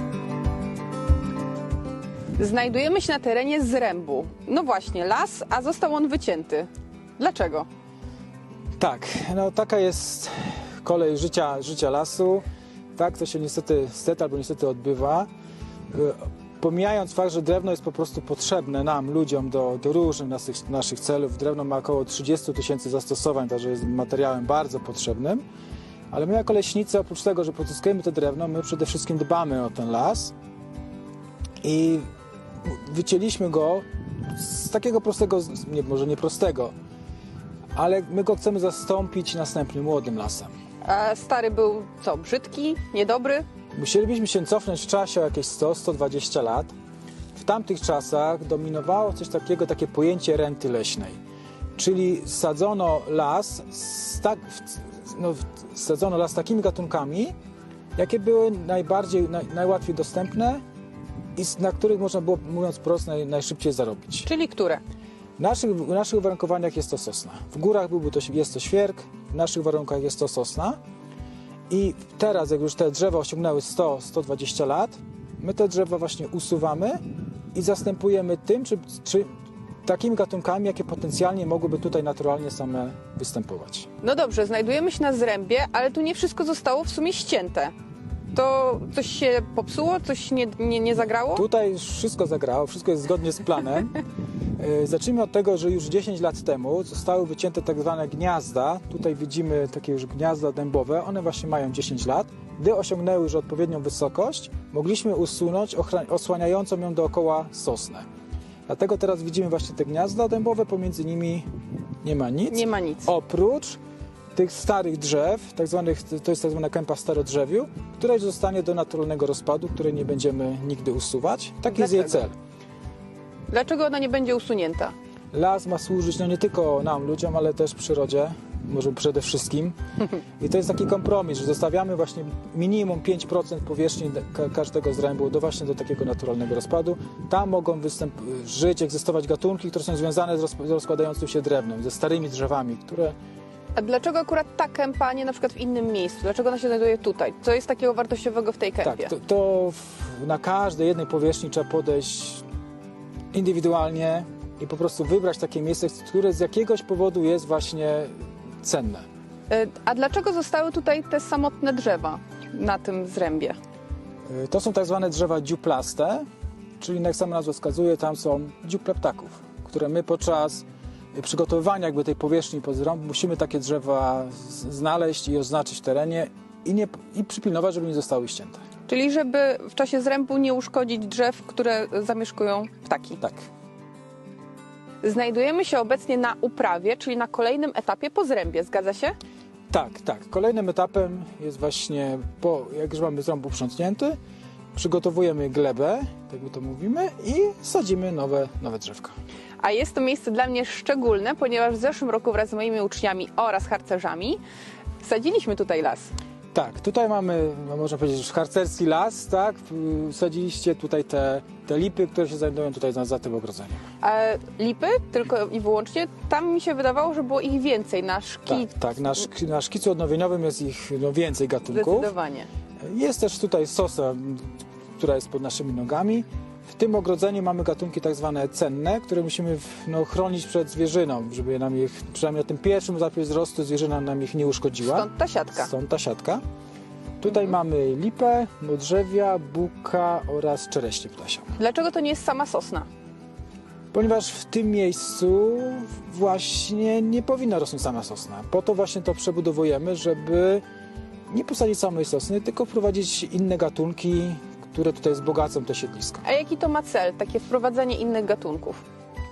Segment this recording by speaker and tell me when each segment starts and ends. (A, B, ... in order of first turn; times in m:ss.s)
0:02.4-0:07.7 A
0:08.8-0:15.3 B
0:15.9-0:25.4 B
0:26.1-0:30.3 B
0:31.6-0:32.1 B
0:32.6-0:36.7 B
0:37.8-0:40.5 B
0:40.8-0:43.4 A
0:43.7-0:46.7 B
0:47.4-0:51.2 B
0:51.8-0:57.3 B
0:58.0-1:00.6 B
1:01.4-1:04.3 B
1:04.2-1:04.8 A
1:05.4-1:10.8 B
1:11.7-1:17.0 B
1:17.5-1:19.3 B
1:19.8-1:23.9 B
1:24.0-1:27.7 A
1:28.3-1:31.4 A
1:31.3-1:34.0 B
1:34.6-1:48.1 B
1:48.7-1:51.5 B
1:52.0-1:53.8 B
1:52.5-1:53.1 A
1:54.3-2:02.4 B
2:01.7-2:02.1 A
2:03.5-2:04.9 A
2:05.3-2:09.8 B
2:10.4-2:23.2 B
2:23.8-2:29.1 A
2:28.8-2:32.4 B
2:33.3-2:39.1 B
2:39.5-2:43.6 A
2:44.3-2:46.2 B
2:46.8-2:58.6 B
2:58.9-3:03.2 A
3:03.2-3:03.5 B
3:05.0-3:09.2 A
3:09.7-3:14.2 B
3:14.7-3:19.1 B
3:19.6-3:24.4 A
3:25.0-3:26.1 A
3:26.5-3:33.8 B
3:34.0-3:38.7 A
3:38.5-3:42.1 B
3:41.6-3:42.5 A
3:42.8-3:56.4 B
3:54.8-3:55.7 A
3:57.2-4:01.5 B
4:01.6-4:02.9 A
4:03.9-4:10.6 B
4:11.3-4:16.2 B
4:16.2-4:18.8 A